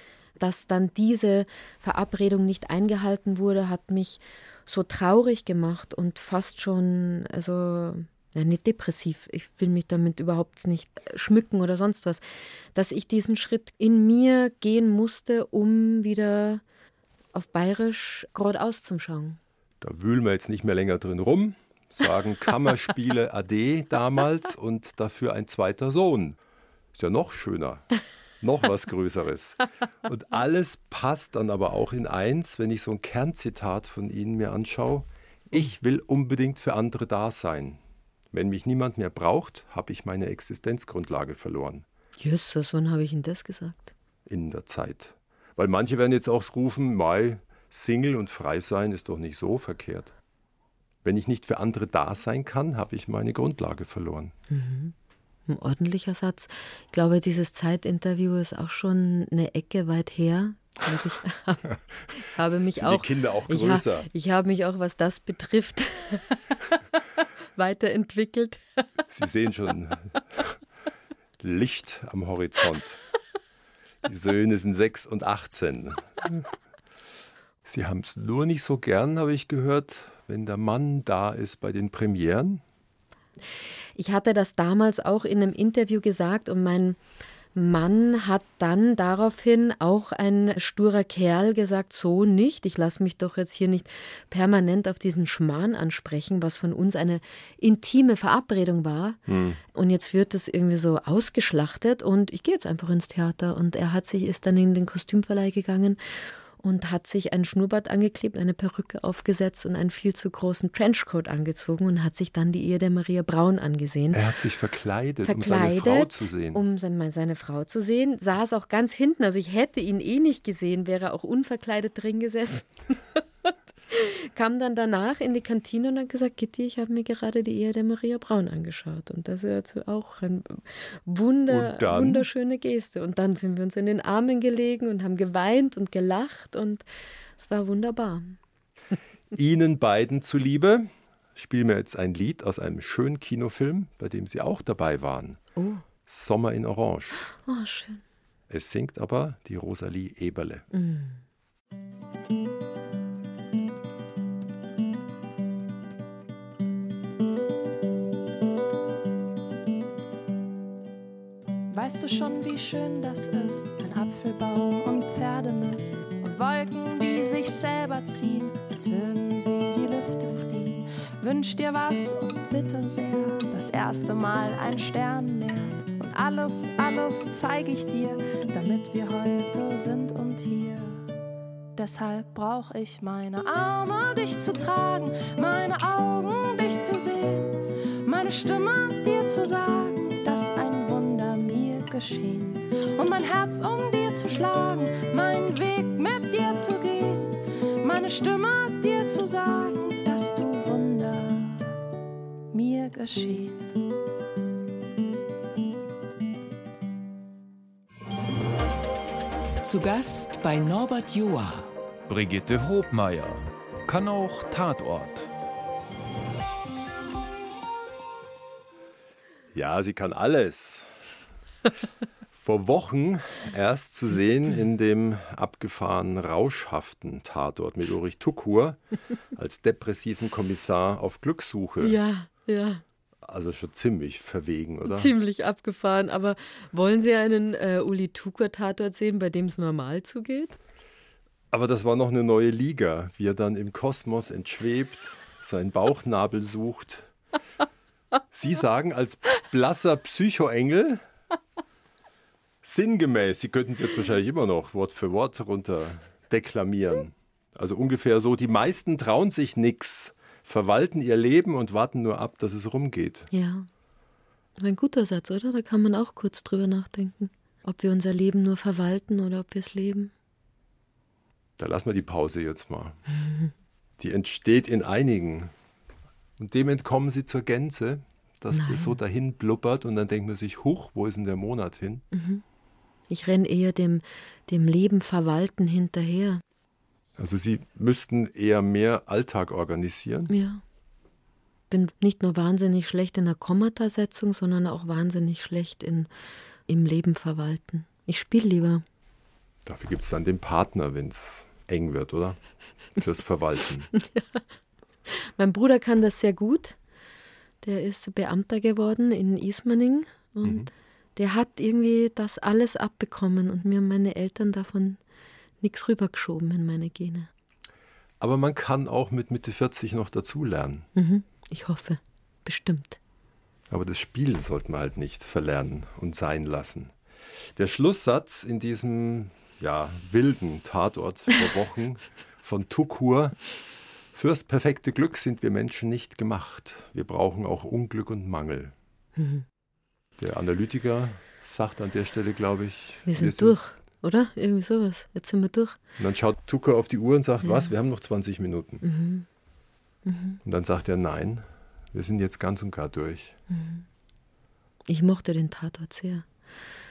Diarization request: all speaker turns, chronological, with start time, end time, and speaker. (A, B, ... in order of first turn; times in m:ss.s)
0:00.4-0:12.2 A
0:12.8-0:16.6 A
0:17.4-0:19.4 A
0:19.8-0:26.4 B
0:26.9-0:27.9 B
0:28.4-0:37.8 B
0:38.3-0:41.8 B
0:42.2-0:43.9 A
0:44.3-0:50.1 B
0:51.0-0:54.3 B
0:54.5-0:54.9 A
0:55.5-1:07.0 A
1:02.7-1:04.1 B
1:07.6-1:08.6 A
1:09.1-1:10.6 B
1:11.4-1:13.0 B
1:14.0-1:16.5 B
1:17.6-1:22.6 B
1:24.0-1:27.0 A
1:27.6-1:39.2 A
1:39.3-1:39.6 B
1:39.7-1:54.2 A
1:54.1-1:56.6 B
1:55.2-2:16.8 A
2:11.5-2:12.3 B
2:17.4-2:18.4 A
2:19.3-2:25.4 B
2:25.6-2:25.8 A
2:26.1-2:27.3 B
2:27.4-2:28.0 A
2:28.5-2:30.7 B
2:30.7-2:31.2 A
2:41.7-3:01.1 C
3:01.8-3:21.7 C
3:22.5-3:23.6 C
3:29.6-3:31.7 D
3:32.1-3:35.3 E
3:39.5-3:41.0 B
3:42.3-3:48.8 B
3:49.4-3:52.0 B
3:51.8-3:52.8 A
3:53.2-3:55.1 B
3:54.9-4:00.6 A
4:01.5-4:07.1 B
4:08.3-4:11.0 B
4:12.6-4:23.3 B
4:23.3-4:23.7 A
4:24.6-4:30.1 A
4:31.6-4:33.0 B
4:33.2-4:33.5 A
4:34.0-4:35.5 B
4:36.4-4:42.0 B
4:38.5-4:39.0 A
4:42.1-4:42.4 A
4:43.1-4:46.4 A
4:47.2-4:50.3 B
4:50.3-4:50.6 A
4:51.7-4:56.1 A
4:56.7-4:58.8 A
4:59.6-5:02.4 B
5:03.0-5:03.9 B
5:04.0-5:04.4 A
5:05.1-5:06.8 A
5:07.6-5:15.0 A
5:10.4-5:10.7 B
5:15.6-5:17.3 A
5:18.2-5:20.9 B
5:21.0-5:23.0 A
5:23.7-5:26.9 B
5:27.6-5:33.4 B
5:34.1-5:38.7 B
5:39.2-5:39.4 A
5:40.2-5:43.6 B
5:43.1-5:45.8 A
5:46.0-5:48.8 B
5:47.4-5:47.7 A
5:48.8-5:49.3 A
5:50.0-5:50.4 A
5:50.4-5:53.4 B
5:53.5-5:53.8 A
5:54.9-5:56.2 A